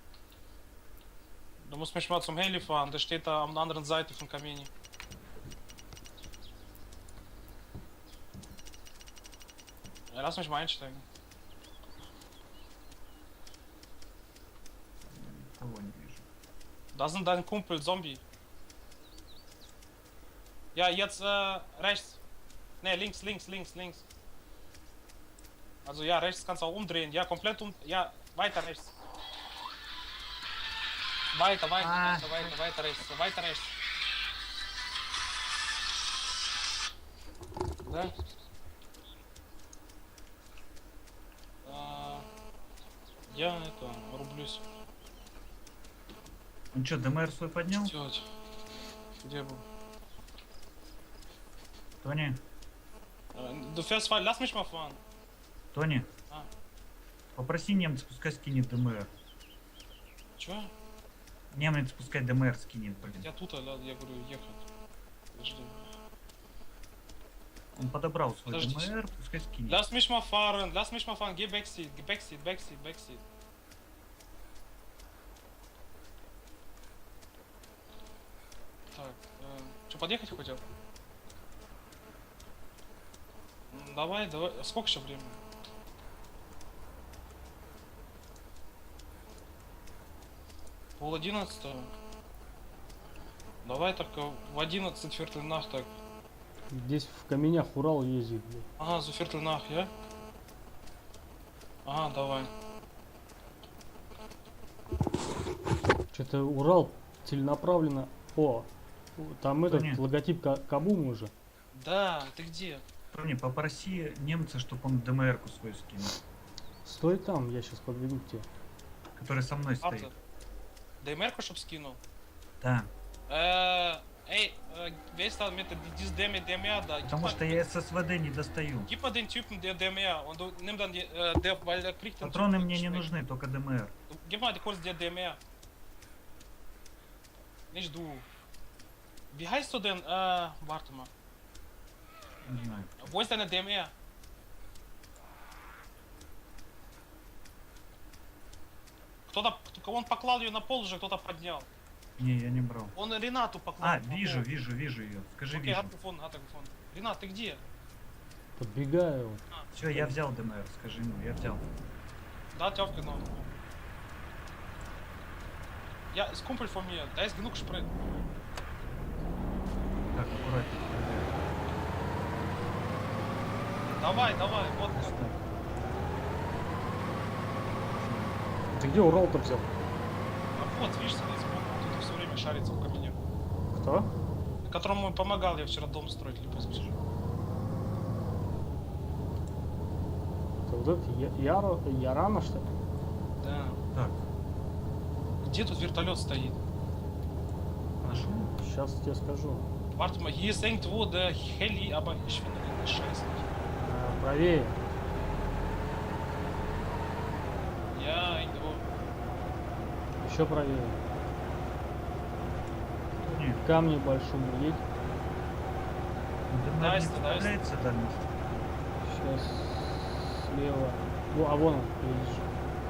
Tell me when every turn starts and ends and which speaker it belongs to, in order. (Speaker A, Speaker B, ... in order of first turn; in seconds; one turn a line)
Speaker A: 1.7-4.7
Speaker A: 10.1-11.1
Speaker B: 15.1-16.3
Speaker A: 16.9-18.2
Speaker A: 20.8-22.2
Speaker A: 22.8-24.0
Speaker A: 25.9-28.9
Speaker A: 31.3-33.7
Speaker B: 31.8-32.5
Speaker A: 37.8-38.1
Speaker A: 41.6-42.3
Speaker A: 43.3-44.6
Speaker B: 46.7-47.9
Speaker A: 47.7-48.3
Speaker A: 49.2-49.6
Speaker B: 52.0-52.4
Speaker A: 53.4-55.0
Speaker B: 55.7-56.1
Speaker B: 57.4-59.1
Speaker A: 60.4-60.7
Speaker B: 61.5-63.3
Speaker A: 63.2-64.6
Speaker A: 65.3-65.9
Speaker B: 67.8-69.8
Speaker A: 68.5-68.9
Speaker A: 69.7-73.2
Speaker A: 78.9-80.6
Speaker A: 83.7-85.4
Speaker A: 91.0-91.9
Speaker A: 93.6-95.9
Speaker C: 96.7-98.7
Speaker A: 98.8-99.9
Speaker A: 101.8-102.5
Speaker C: 106.1-111.3
Speaker B: 109.7-110.0
Speaker A: 111.7-112.8
Speaker B: 113.1-116.2
Speaker C: 116.8-118.5
Speaker B: 119.2-120.1
Speaker A: 119.8-120.2
Speaker A: 121.0-122.0
Speaker B: 122.6-122.9
Speaker A: 123.3-127.7
Speaker B: 127.0-128.9
Speaker A: 128.8-133.1
Speaker B: 132.2-133.9
Speaker A: 134.1-135.4
Speaker A: 137.7-138.3
Speaker A: 139.3-141.1
Speaker B: 142.4-143.2
Speaker A: 143.0-143.9
Speaker A: 149.3-151.7
Speaker B: 152.2-152.9
Speaker A: 152.9-154.5
Speaker B: 153.8-155.9
Speaker A: 155.5-157.7
Speaker C: 158.6-160.2
Speaker B: 159.7-161.6
Speaker A: 162.5-163.5
Speaker A: 166.1-167.9
Speaker B: 170.1-171.4
Speaker A: 173.8-175.3
Speaker B: 174.9-175.5
Speaker B: 178.0-178.3
Speaker C: 178.7-179.7
Speaker A: 180.6-183.2
Speaker C: 183.7-184.1
Speaker A: 184.6-186.9
Speaker B: 186.5-187.0
Speaker C: 190.7-192.7
Speaker A: 193.4-193.8
Speaker B: 193.9-194.2
Speaker A: 195.4-196.6
Speaker B: 198.0-198.5
Speaker C: 198.4-199.7
Speaker A: 199.9-203.5
Speaker C: 203.8-204.8
Speaker A: 207.9-208.9
Speaker C: 210.2-211.0
Speaker B: 213.2-213.6
Speaker C: 213.4-214.8
Speaker B: 216.5-218.3
Speaker A: 216.8-217.6
Speaker C: 219.0-222.5